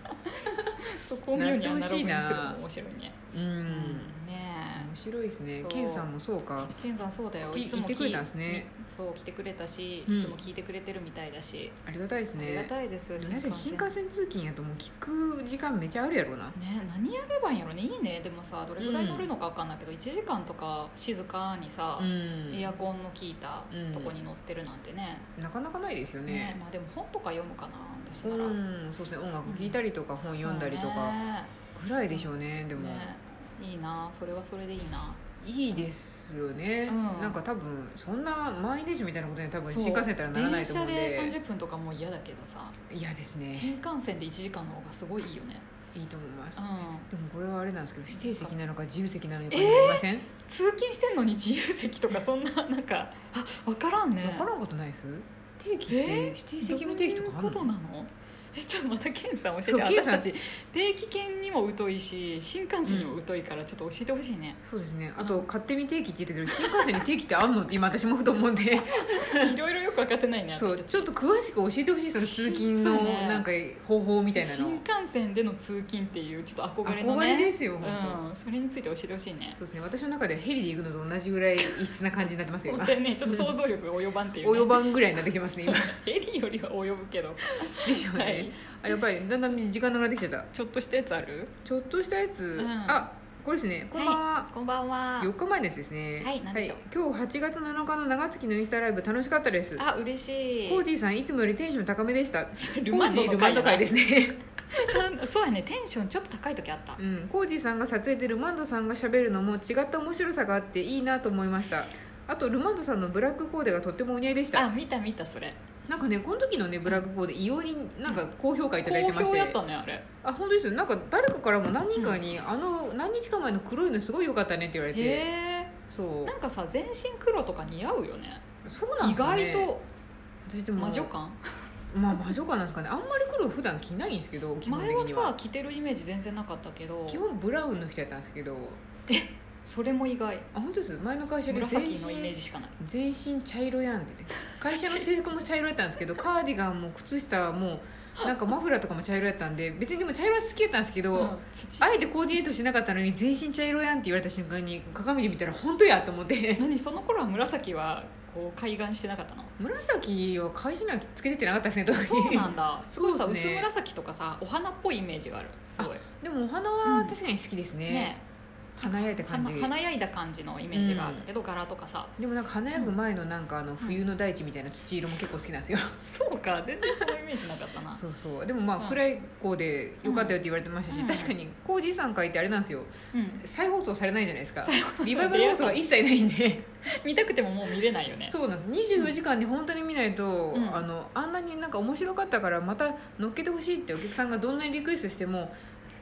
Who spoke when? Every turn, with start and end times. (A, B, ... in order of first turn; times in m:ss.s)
0:00.3-0:03.2 A
0:01.3-0:02.6 B
0:03.3-0:04.1 B
0:03.7-0:04.9 A
0:04.7-0:06.7 B
0:05.6-0:06.1 A
0:06.8-0:11.8 A
0:07.5-0:08.7 B
0:10.1-0:10.4 B
0:11.9-0:16.6 B
0:12.4-0:13.9 A
0:16.6-0:25.3 A
0:18.8-0:19.3 B
0:22.0-0:22.7 B
0:23.7-0:24.2 B
0:25.4-0:26.6 B
0:26.3-0:28.6 A
0:28.2-0:31.2 B
0:29.4-0:29.8 A
0:30.4-0:31.5 A
0:31.7-0:33.1 B
0:32.1-0:35.2 A
0:35.4-0:41.4 B
0:36.9-0:37.4 A
0:39.7-0:42.8 A
0:42.9-0:43.7 B
0:43.5-0:45.6 A
0:46.0-0:50.3 B
0:46.6-0:47.1 A
0:48.1-0:48.5 A
0:49.5-0:54.5 A
0:54.2-0:57.7 B
0:55.9-1:04.6 A
0:59.6-1:00.3 B
1:02.9-1:03.2 B
1:04.6-1:09.5 B
1:05.2-1:05.5 A
1:06.5-1:06.9 A
1:09.0-1:11.1 A
1:10.5-1:14.8 B
1:12.2-1:13.4 A
1:14.4-1:19.6 A
1:16.8-1:18.2 B
1:19.6-1:23.6 B
1:22.6-1:25.0 A
1:24.4-1:26.0 B
1:25.6-1:28.6 A
1:27.7-1:30.5 B
1:30.5-1:31.5 A
1:31.6-1:34.5 B
1:32.6-1:33.1 A
1:33.9-1:35.3 A
1:35.2-1:39.8 B
1:36.2-1:36.8 A
1:39.8-1:40.8 A
1:40.7-1:44.4 B
1:42.6-1:43.9 A
1:44.7-1:47.0 A
1:47.0-1:54.7 B
1:54.5-1:55.6 A
1:55.9-1:59.6 B
1:58.8-2:00.0 A
2:00.2-2:05.3 B
2:02.0-2:02.2 A
2:04.9-2:05.8 A
2:05.9-2:06.4 B
2:06.3-2:08.4 A
2:08.6-2:09.7 B
2:09.0-2:09.8 A
2:10.4-2:11.1 B
2:10.8-2:11.4 A
2:11.9-2:15.3 B
2:14.6-2:17.2 A
2:17.1-2:18.8 B
2:19.1-2:20.5 A
2:20.5-2:36.7 B
2:21.5-2:22.7 A
2:24.7-2:25.1 A
2:31.1-2:32.0 A
2:36.6-2:39.5 A
2:39.6-2:43.7 B
2:42.0-2:46.0 A
2:45.8-2:48.2 B
2:46.8-2:47.2 A
2:47.9-2:48.2 A
2:48.8-2:49.7 B
2:48.9-2:52.1 A
2:50.7-2:51.3 B
2:52.2-2:56.0 B
2:56.0-2:58.0 A
2:57.9-3:06.7 B
3:00.0-3:00.4 A
3:00.9-3:01.3 A
3:03.1-3:03.4 A
3:04.6-3:05.8 A
3:06.9-3:08.4 A
3:08.3-3:15.6 B
3:10.5-3:10.9 A